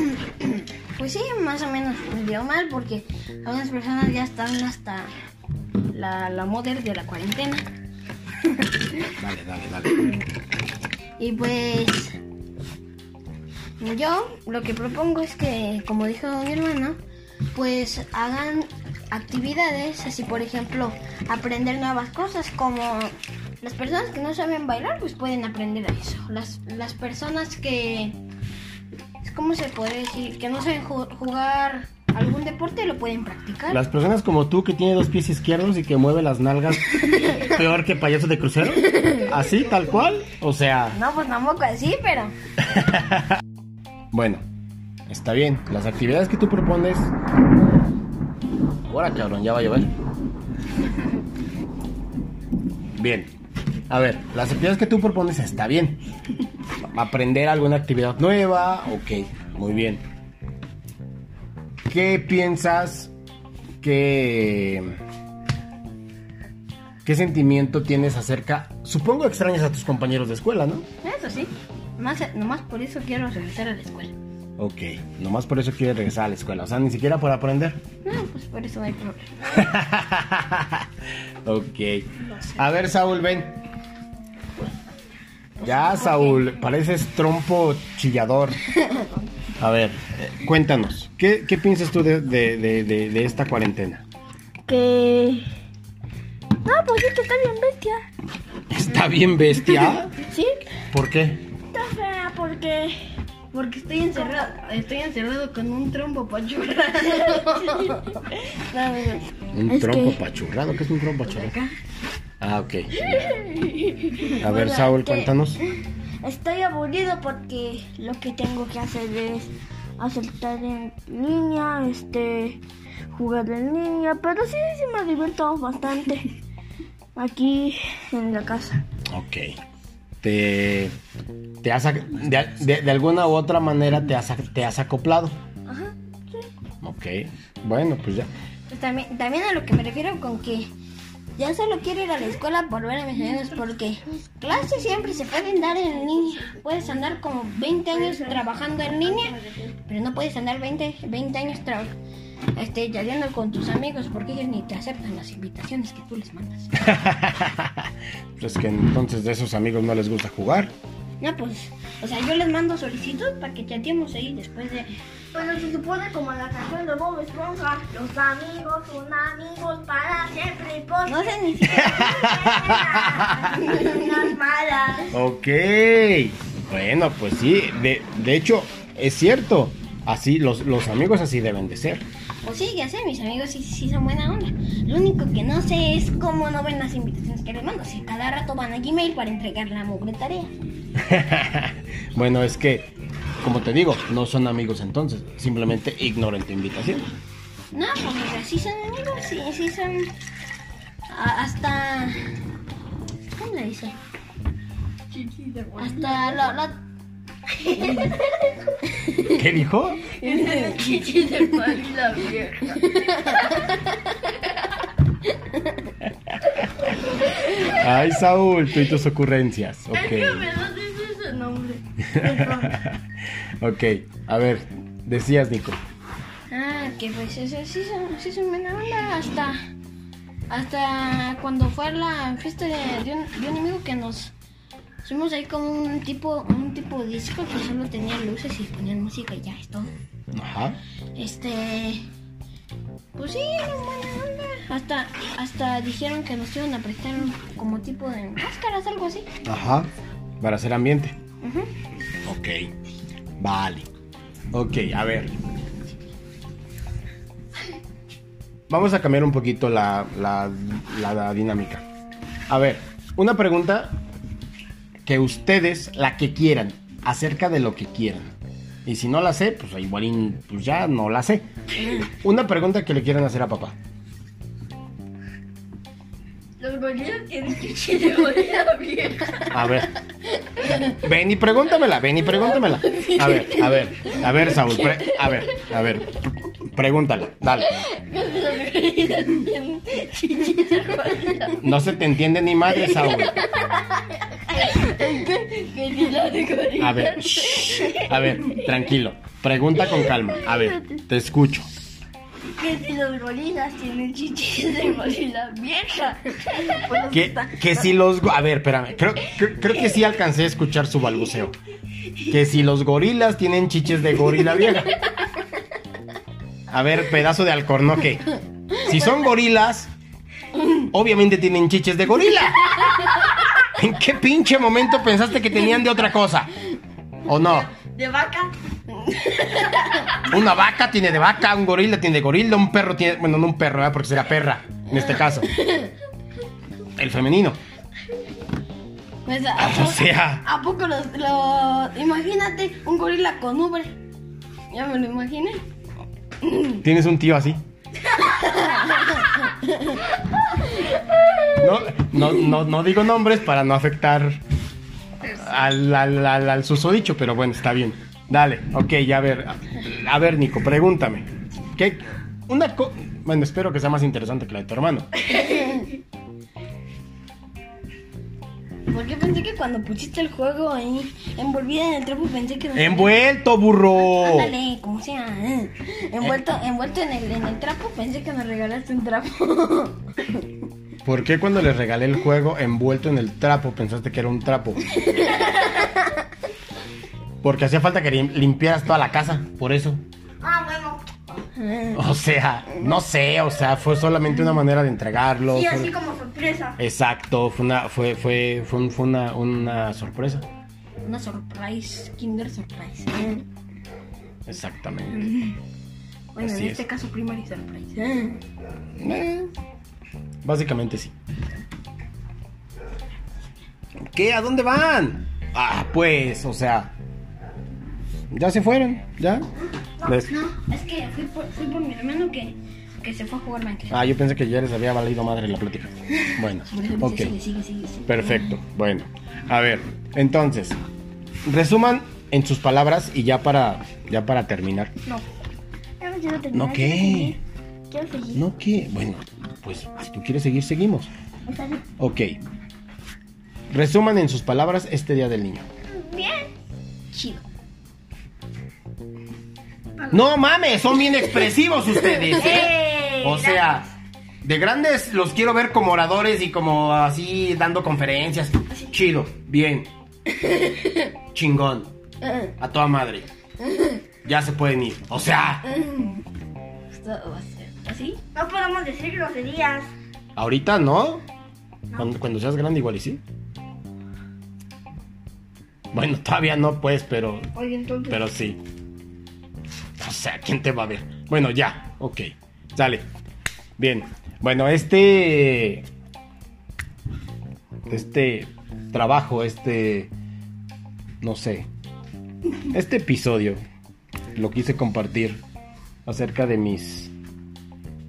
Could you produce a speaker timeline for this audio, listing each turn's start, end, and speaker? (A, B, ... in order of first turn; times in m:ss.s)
0:00.4-0:05.1 A
0:05.9-0:07.6 A
0:09.2-0:10.1 B
0:11.2-0:12.2 A
0:13.8-0:17.0 A
0:17.5-0:28.2 A
0:29.2-0:33.8 A
0:33.7-0:41.0 B
0:37.0-0:37.4 A
0:38.8-0:39.3 A
0:40.9-0:42.3 A
0:42.6-0:43.2 B
0:44.1-0:44.4 B
0:45.1-0:47.1 B
0:48.9-0:49.9 B
0:53.0-0:53.3 B
0:53.9-0:56.0 B
0:56.9-1:00.0 B
1:01.9-1:03.1 B
1:03.8-1:05.0 B
1:07.0-1:10.8 B
1:11.0-1:14.1 A
1:14.6-1:17.8 B
1:18.0-1:19.6 A
1:19.5-1:20.9 B
1:21.4-1:23.6 B
1:25.6-1:26.5 A
1:25.6-1:28.6 B
1:29.6-1:34.0 B
1:34.7-1:35.5 C
1:36.6-1:38.0 C
1:38.7-1:40.1 B
1:40.9-1:41.4 B
1:41.7-1:43.0 C
1:43.5-1:48.2 A
1:44.1-1:44.5 C
1:47.4-1:50.2 C
1:49.5-1:51.6 B
1:51.2-1:51.7 A
1:52.4-1:53.4 B
1:53.2-1:55.7 C
1:54.4-1:55.6 B
1:56.2-2:02.6 C
2:03.1-2:06.3 C
2:07.2-2:08.8 C
2:09.1-2:09.5 B
2:10.2-2:10.9 B
2:11.6-2:15.3 B
2:15.7-2:15.9 A
2:16.8-2:18.3 B
2:18.7-2:20.7 A
2:21.4-2:31.9 A
2:32.5-2:36.7 A
2:36.8-2:40.7 B
2:41.2-2:44.9 A
2:45.3-2:55.1 C
2:51.0-2:51.9 A
2:51.7-2:53.8 B
2:53.6-2:54.3 A
2:55.1-3:02.0 B
3:02.4-3:10.5 A
3:11.0-3:17.1 B
3:17.7-3:20.1 A
3:21.1-3:22.3 A
3:23.4-3:24.0 A
3:25.1-3:26.5 C
3:25.8-3:26.8 A
3:27.6-3:28.2 C
3:27.7-3:28.2 A
3:28.9-3:29.5 A
3:29.3-3:30.0 B
3:30.2-3:33.5 C
3:30.2-3:31.2 A
3:32.7-3:34.4 A
3:37.2-3:37.7 A
3:37.6-3:40.5 B
3:40.0-3:40.5 A
3:40.4-3:42.7 C
3:42.1-3:43.0 B
3:43.6-3:45.8 B
3:46.5-3:49.6 A
3:50.5-3:54.3 A
3:55.0-3:59.9 A
4:00.3-4:00.8 B
4:01.2-4:02.0 A
4:03.2-4:09.3 A
4:09.4-4:09.9 B
4:10.4-4:11.2 B
4:11.4-4:11.7 A
4:12.2-4:12.7 B
4:13.4-4:13.9 B
4:14.5-4:15.3 B
4:18.7-4:21.8 B
4:22.5-4:24.0 B
4:25.0-4:28.3 B
4:28.8-4:31.4 B
4:31.8-4:32.1 A
4:32.0-4:33.8 B
4:36.6-4:39.3 C
4:38.0-4:38.5 A
4:39.2-4:39.9 A
4:39.5-4:39.9 B
4:40.4-4:40.9 A
4:40.9-4:46.0 B
4:42.3-4:45.7 A
4:46.7-4:47.7 B
4:47.6-4:51.8 A
4:51.6-4:53.3 B
4:52.7-4:58.7 A
4:54.7-4:55.1 C
4:55.7-4:56.5 C
4:56.8-5:01.7 B
4:59.8-5:00.7 A
5:02.6-5:07.1 C
5:04.9-5:05.2 A
5:06.1-5:07.8 A
5:07.1-5:11.6 B
5:12.2-5:15.0 B
5:15.1-5:15.4 A
5:16.7-5:19.9 B
5:18.8-5:19.2 A
5:20.8-5:22.7 B
5:22.7-5:23.6 A
5:23.7-5:26.5 B
5:27.2-5:27.7 B
5:27.6-5:30.3 A
5:30.2-5:35.5 B
5:34.9-5:35.9 A
5:37.0-5:37.6 B
5:39.2-5:44.0 A
5:39.6-5:40.4 B
5:44.7-5:45.6 A
5:46.4-5:46.8 A
5:46.8-5:47.6 B
5:48.1-5:50.0 A
5:50.7-5:51.8 A
5:51.6-5:54.4 B
5:55.3-6:05.1 B
6:05.3-6:05.9 A
6:08.9-6:13.2 A
6:12.7-6:14.5 B
6:13.9-6:20.4 A
6:21.0-6:24.8 B
6:25.0-6:26.1 A
6:27.4-6:30.0 B
6:30.4-6:31.0 C
6:31.4-6:32.0 A
6:31.9-6:35.9 B
6:35.5-6:36.8 C
6:36.8-6:40.4 B
6:41.0-6:43.4 A
6:44.5-6:45.3 B
6:45.1-6:45.6 A
6:46.3-6:48.4 A
6:46.4-6:46.8 B
6:49.0-6:49.5 B
6:50.4-6:51.1 B
6:54.1-6:56.9 B
6:58.3-6:59.5 B
7:00.0-7:00.3 B
7:00.3-7:04.0 A
7:03.9-7:07.3 B
7:06.2-7:08.6 A
7:08.1-7:10.8 B
7:11.4-7:14.9 B
7:16.0-7:17.4 C
7:16.5-7:17.4 B
7:17.9-7:18.5 C
7:18.3-7:21.1 B
7:21.5-7:21.8 C
7:22.0-7:22.4 B
7:23.7-7:25.7 B
7:26.1-7:26.4 A
7:27.1-7:27.4 A
7:30.1-7:33.9 B
7:31.1-7:31.4 A
7:32.0-7:32.7 A
7:32.4-7:33.6 C
7:34.4-7:39.9 B
7:40.3-7:41.1 A
7:41.3-7:41.9 B
7:42.2-7:42.5 A
7:42.6-7:43.3 B
7:43.6-7:44.0 A
7:44.2-7:45.6 B
7:45.6-7:46.2 A
7:46.9-7:48.2 A
7:48.3-7:49.9 C
7:50.4-7:51.2 B
7:52.0-7:53.2 B
7:55.9-7:57.5 B
7:57.6-7:58.1 C
7:58.0-7:58.6 B
8:00.0-8:03.0 B
8:03.8-8:05.8 B
8:07.9-8:10.1 B
8:11.2-8:11.7 B
8:12.7-8:13.6 B
8:14.3-8:15.4 B
8:16.0-8:17.1 B